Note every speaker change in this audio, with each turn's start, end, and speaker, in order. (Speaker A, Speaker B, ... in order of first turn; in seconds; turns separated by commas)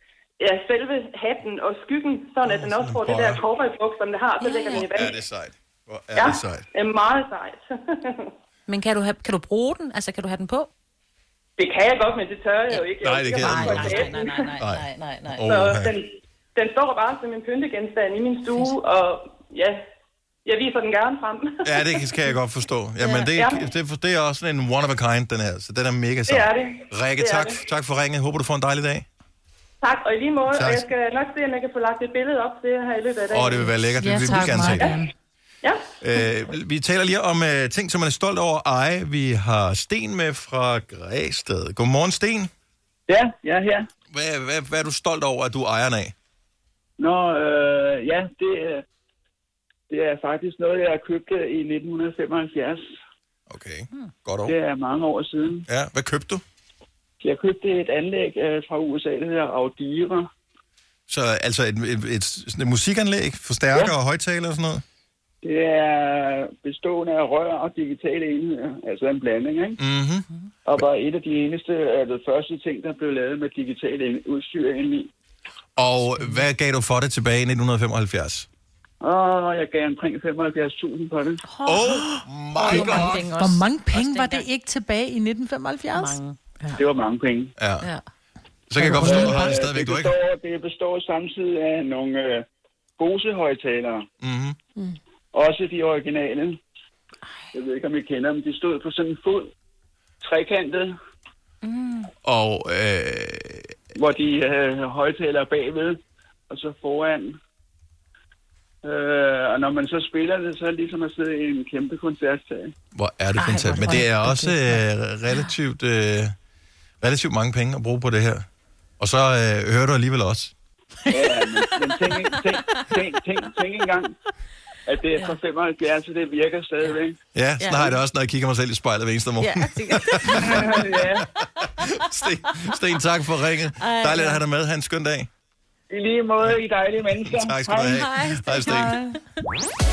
Speaker A: 0.4-5.2, Speaker B: 2.4-3.4, Speaker C: 4.4-4.9, Speaker B: 4.7-6.7, Speaker A: 6.2-8.3, Speaker C: 8.7-10.7, Speaker A: 11.6-14.5, Speaker C: 12.7-15.5, Speaker B: 13.0-15.9, Speaker A: 15.4-19.8, Speaker A: 20.5-22.2, Speaker B: 21.6-29.1, Speaker C: 23.0-23.3, Speaker A: 23.4-23.7, Speaker A: 26.3-27.6, Speaker A: 29.8-35.0, Speaker B: 30.5-30.9, Speaker B: 33.3-35.0, Speaker D: 34.0-35.1, Speaker B: 36.0-42.5, Speaker E: 43.1-43.9, Speaker B: 44.1-46.1, Speaker E: 47.0-48.8, Speaker E: 49.9-52.9, Speaker B: 53.5-54.5, Speaker E: 54.5-55.7, Speaker B: 55.7-56.4, Speaker E: 57.2-60.3, Speaker B: 61.1-64.8, Speaker E: 65.4-69.8, Speaker B: 69.8-70.3, Speaker E: 70.7-75.1, Speaker B: 75.8-78.5, Speaker E: 79.0-81.4, Speaker C: 81.5-84.5, Speaker B: 81.7-83.2, Speaker D: 82.6-86.2, Speaker C: 85.9-86.8, Speaker E: 86.8-87.5, Speaker B: 87.6-87.9, Speaker B: 88.7-90.1, Speaker D: 88.8-89.6, Speaker E: 88.9-92.5, Speaker E: 93.0-94.1, Speaker B: 94.2-94.6, Speaker E: 95.3-96.6, Speaker E: 97.5-99.5, Speaker E: 100.2-100.9, Speaker C: 101.6-102.1, Speaker B: 102.2-103.8, Speaker E: 103.9-107.4, Speaker E: 108.8-112.7, Speaker B: 113.0-116.3, Speaker C: 113.4-114.1, Speaker D: 113.8-114.8, Speaker B: 117.0-118.5, Speaker B: 119.0-120.5, Speaker E: 121.1-124.2, Speaker C: 121.3-122.2, Speaker E: 124.9-127.2, Speaker B: 127.3-135.3, Speaker C: 127.6-128.0, Speaker C: 129.4-130.7, Speaker E: 130.3-131.2, Speaker C: 133.8-134.4, Speaker E: 135.9-138.0, Speaker B: 137.3-139.0, Speaker C: 137.9-139.2